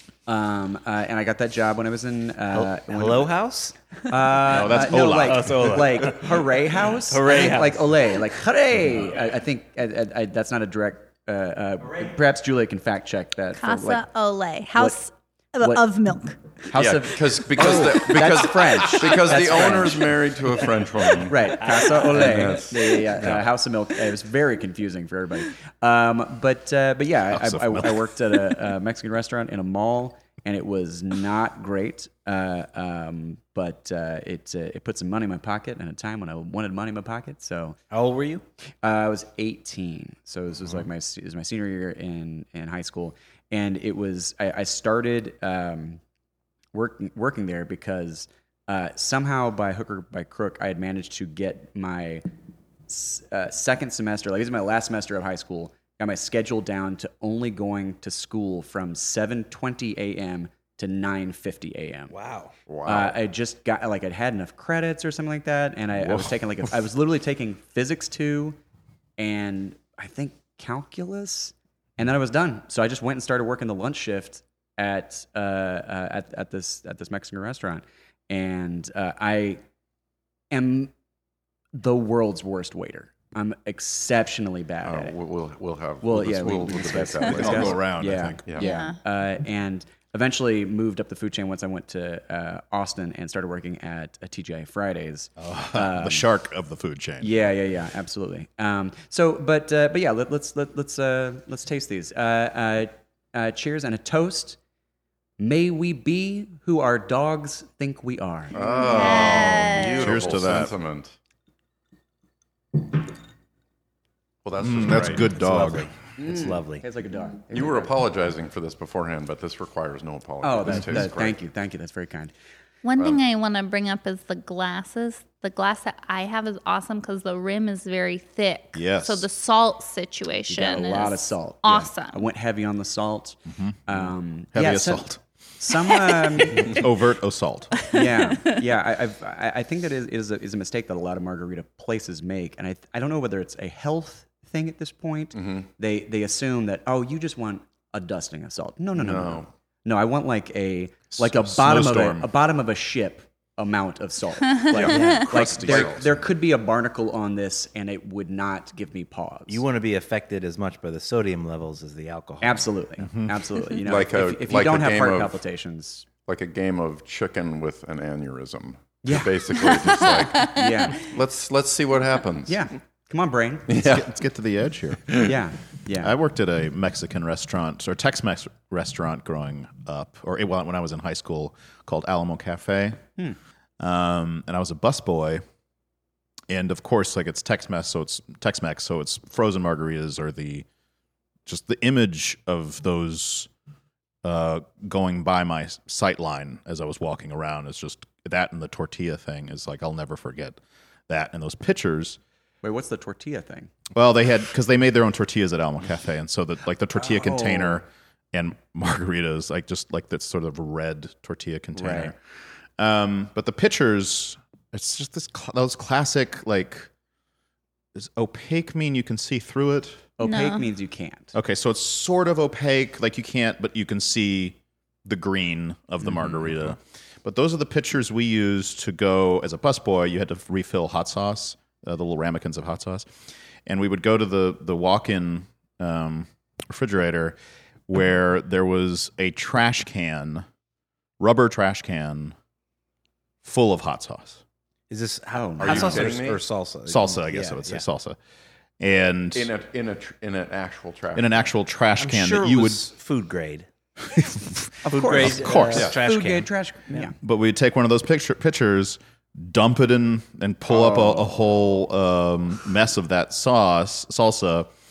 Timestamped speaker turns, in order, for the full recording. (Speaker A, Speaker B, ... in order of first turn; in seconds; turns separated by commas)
Speaker A: 0.3-3.3, Speaker B: 2.5-3.8, Speaker A: 4.1-14.1, Speaker C: 4.5-5.5, Speaker B: 5.2-6.4, Speaker B: 7.1-8.2, Speaker D: 13.6-16.4, Speaker A: 16.7-20.1, Speaker E: 16.7-23.4, Speaker A: 21.3-37.8, Speaker C: 27.3-27.9, Speaker B: 37.9-38.4, Speaker A: 38.8-46.0, Speaker A: 46.7-52.2, Speaker A: 52.9-62.1, Speaker B: 62.1-62.5, Speaker E: 62.7-63.2, Speaker A: 62.9-68.6, Speaker A: 69.2-79.6, Speaker A: 80.5-80.9, Speaker A: 81.7-85.1, Speaker E: 84.8-87.8, Speaker A: 86.0-96.3, Speaker C: 87.3-88.5, Speaker E: 88.5-88.7, Speaker D: 88.6-89.0, Speaker C: 95.4-97.3, Speaker A: 97.2-104.6, Speaker A: 105.4-108.6, Speaker E: 108.5-111.1, Speaker D: 108.6-110.2, Speaker C: 110.0-110.7, Speaker E: 114.4-115.3, Speaker C: 114.6-115.9, Speaker B: 115.4-116.8, Speaker A: 116.2-118.0, Speaker E: 117.5-121.4, Speaker A: 120.4-122.3, Speaker D: 122.8-132.2, Speaker E: 123.0-123.2, Speaker C: 128.8-129.3, Speaker A: 130.5-135.1, Speaker C: 133.5-134.0, Speaker C: 134.5-135.2, Speaker A: 135.6-136.8, Speaker C: 135.7-137.7, Speaker A: 137.9-159.6, Speaker E: 145.3-145.7, Speaker E: 148.9-149.5, Speaker C: 151.1-152.3, Speaker C: 154.7-156.2, Speaker B: 154.8-155.9, Speaker B: 159.5-162.6, Speaker A: 162.4-166.1, Speaker C: 163.0-163.3, Speaker E: 163.7-165.4, Speaker E: 166.2-172.6, Speaker A: 169.1-169.3, Speaker A: 170.4-171.0, Speaker A: 172.5-173.7, Speaker E: 173.7-174.1, Speaker C: 173.8-175.2, Speaker E: 175.1-175.3, Speaker A: 175.2-176.2, Speaker C: 176.0-183.0, Speaker C: 183.8-185.4, Speaker C: 186.5-190.7, Speaker C: 191.5-193.5, Speaker C: 194.2-200.6, Speaker C: 201.1-202.2, Speaker A: 202.6-203.7, Speaker C: 203.9-212.2, Speaker A: 206.9-207.8, Speaker A: 211.8-212.1, Speaker C: 212.8-216.9, Speaker C: 217.9-220.0, Speaker A: 220.2-221.3, Speaker D: 220.2-220.7, Speaker C: 221.3-233.1, Speaker C: 233.7-237.4, Speaker C: 237.9-240.5, Speaker C: 241.2-242.3, Speaker C: 243.4-244.4, Speaker B: 244.9-247.8, Speaker A: 245.3-246.1, Speaker E: 245.6-246.4, Speaker C: 246.9-248.2, Speaker C: 248.8-249.5, Speaker E: 249.3-251.4, Speaker C: 251.2-252.9, Speaker B: 252.0-253.7, Speaker C: 254.1-255.9, Speaker A: 254.8-257.1, Speaker B: 254.9-256.5, Speaker C: 257.2-264.7, Speaker A: 260.7-261.2